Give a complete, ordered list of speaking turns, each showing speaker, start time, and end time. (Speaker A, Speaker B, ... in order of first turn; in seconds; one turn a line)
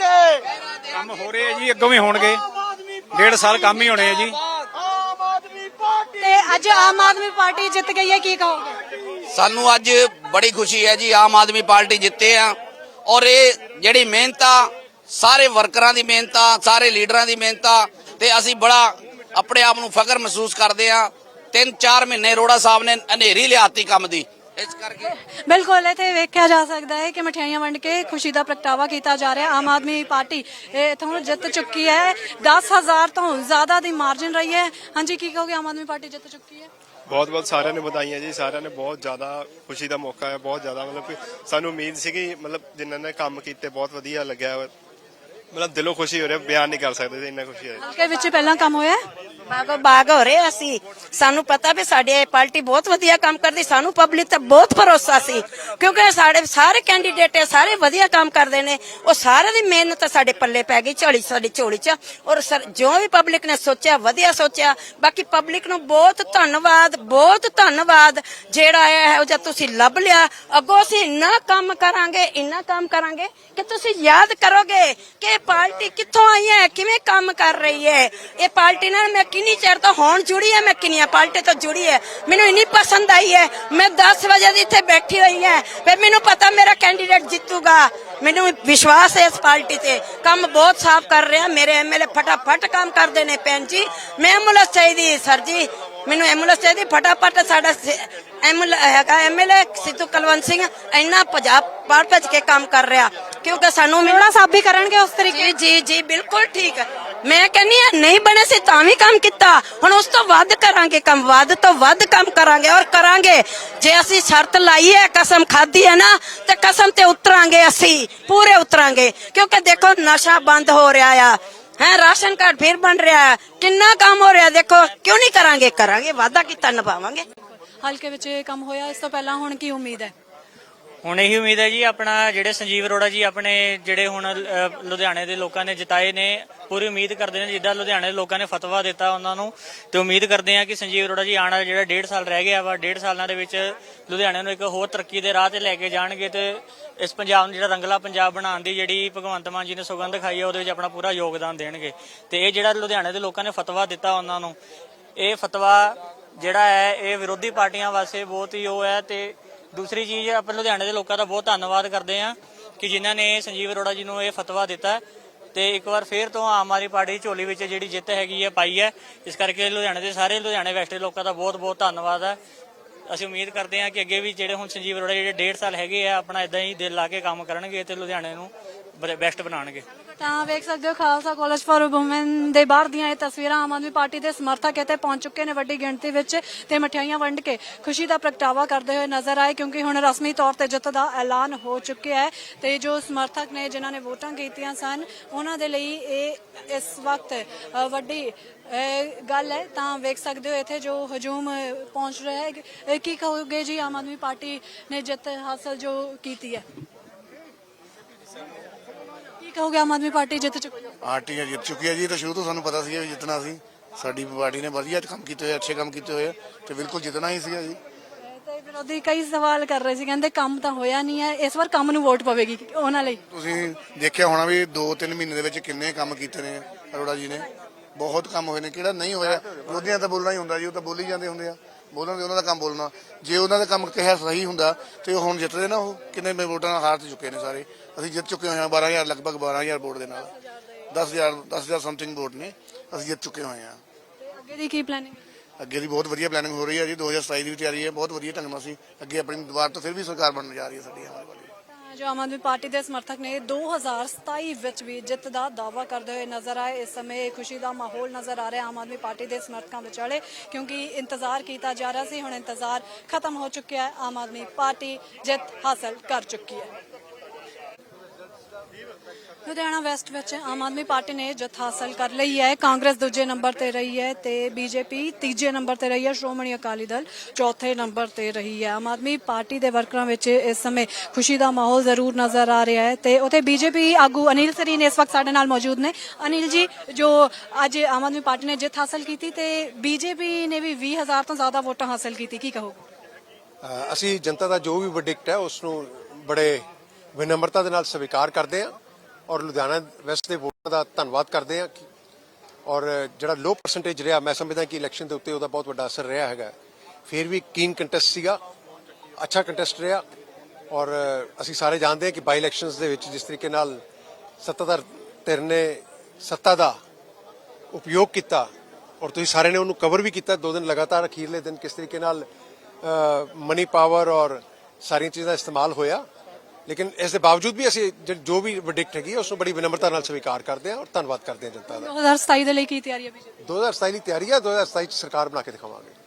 Speaker A: 0.9-2.5
Speaker A: 3.1-4.4
Speaker B: 6.2-8.8
Speaker C: 9.3-25.1
Speaker B: 25.0-36.7
Speaker D: 37.1-44.7
Speaker D: 45.5-47.8
Speaker B: 47.8-49.0
Speaker E: 49.5-104.3
Speaker B: 104.0-105.5
Speaker E: 105.3-127.2
Speaker B: 127.8-130.1
Speaker F: 131.0-154.6
Speaker F: 155.2-165.0
Speaker F: 165.5-172.4
Speaker F: 173.1-179.8
Speaker B: 180.2-206.6
Speaker B: 209.4-210.9
Speaker G: 211.0-217.8
Speaker B: 218.2-223.2
Speaker G: 223.3-240.3
Speaker G: 240.9-243.8
Speaker B: 244.2-245.2
Speaker G: 245.6-251.5
Speaker B: 251.7-266.7
Speaker B: 269.4-292.8
Speaker H: 293.6-298.7
Speaker H: 299.3-301.8
Speaker H: 302.6-306.5
Speaker H: 307.1-308.4
Speaker H: 309.2-310.0
Speaker H: 310.7-313.8
Speaker H: 314.4-316.8
Speaker H: 317.7-318.5
Speaker H: 319.0-322.3
Speaker H: 322.8-326.0
Speaker H: 326.7-331.9
Speaker B: 331.7-333.3
Speaker H: 333.4-335.9